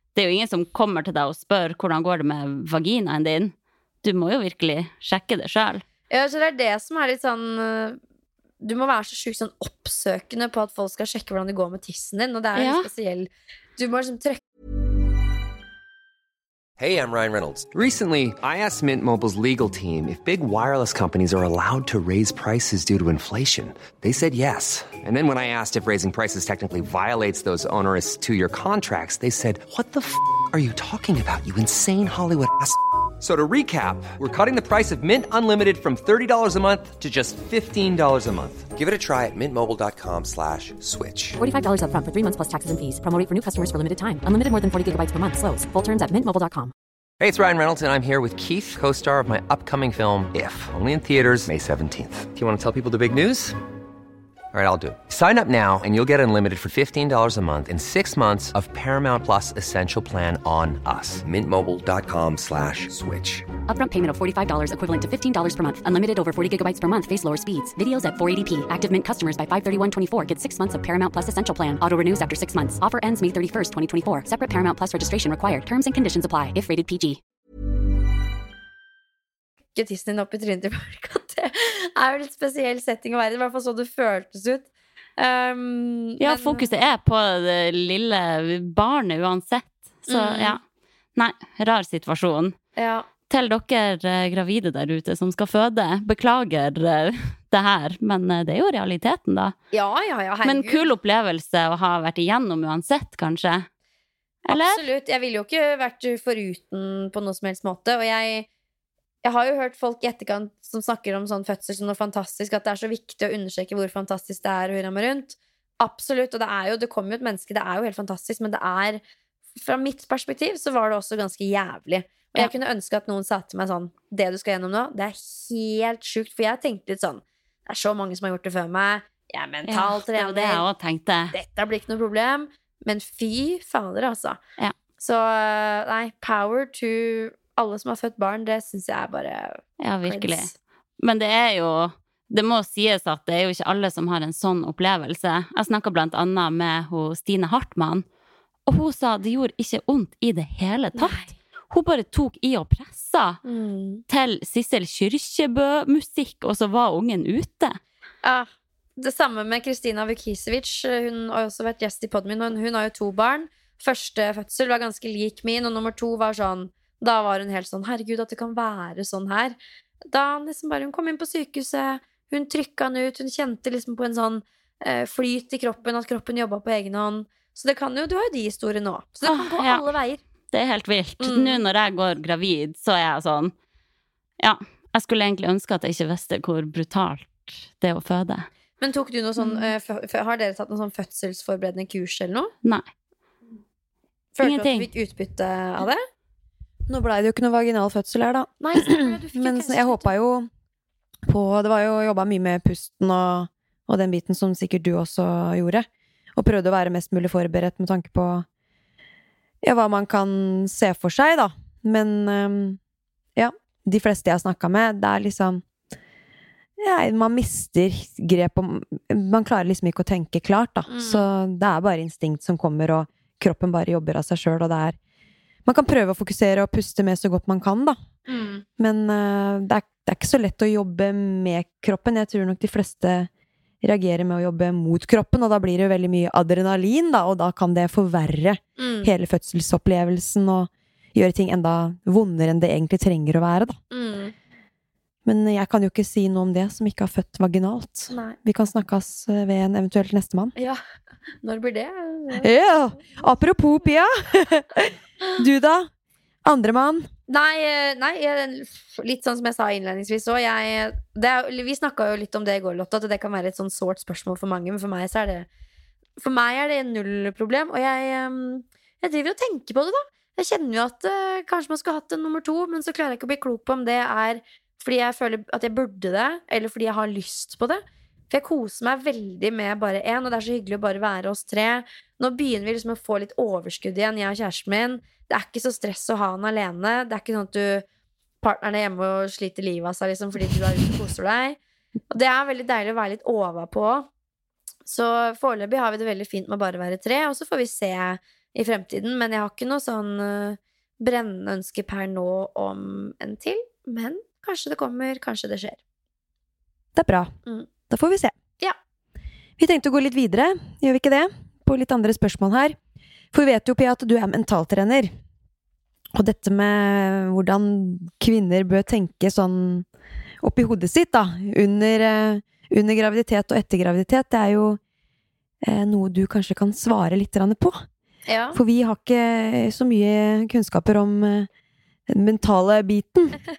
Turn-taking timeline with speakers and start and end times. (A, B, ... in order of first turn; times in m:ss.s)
0:00.2-0:05.8 A
0:06.1-0:08.0 B
0:08.6-0:14.4 B
0:12.6-0:12.9 A
0:16.8-0:41.4 C
0:41.4-0:46.7 D
0:47.2-0:53.6 C
0:54.5-1:03.5 C
1:03.7-1:17.2 D
1:19.8-1:24.7 B
1:25.2-1:26.7 B
1:26.2-1:30.6 A
1:30.1-1:30.6 B
1:31.2-1:32.6 A
1:32.8-1:33.1 B
1:33.3-1:39.5 A
1:39.7-1:40.8 B
1:40.4-1:43.7 A
1:44.5-1:44.8 A
1:44.5-1:48.5 B
1:49.2-1:59.0 B
1:59.6-2:10.6 B
2:09.7-2:11.3 A
2:11.3-2:14.4 B
2:15.0-2:20.5 B
2:19.8-2:28.0 A
2:28.7-2:33.4 A
2:31.0-2:31.3 B
2:33.4-2:34.0 B
2:34.1-2:37.8 A
2:38.2-3:00.2 B
2:59.2-2:59.8 A
3:00.5-3:03.5 A
3:01.2-3:01.6 B
3:04.4-3:08.5 A
3:08.8-3:12.5 B
3:09.4-3:09.7 A
3:14.4-3:16.0 B
3:14.4-3:14.9 A
3:16.9-3:20.5 E
3:18.6-3:20.1 B
3:21.3-3:28.5 E
3:29.6-3:32.8 E
3:33.4-3:35.6 E
3:36.8-3:45.0 E
3:40.9-3:41.3 B
3:45.7-3:48.0 E
3:48.3-3:48.6 B
3:48.8-3:53.3 E
3:53.8-4:03.8 E
3:58.8-3:59.1 B
4:03.9-4:04.4 B
4:05.2-4:10.5 E
4:08.1-4:08.4 B
4:11.4-4:12.5 B
4:12.4-4:15.9 E
4:16.4-4:17.1 E
4:17.3-4:25.5 B
4:26.2-4:47.8 B
4:48.4-4:51.6 B
4:52.1-4:54.1 B
4:54.9-5:05.8 B
5:07.0-5:07.3 E
5:07.9-5:08.4 E
5:09.6-5:12.8 E
5:13.3-5:15.1 E
5:16.1-5:19.9 E
5:20.4-5:24.8 E
5:25.6-5:27.8 E
5:28.3-5:28.6 B
5:28.5-5:31.5 E
5:32.1-5:33.4 E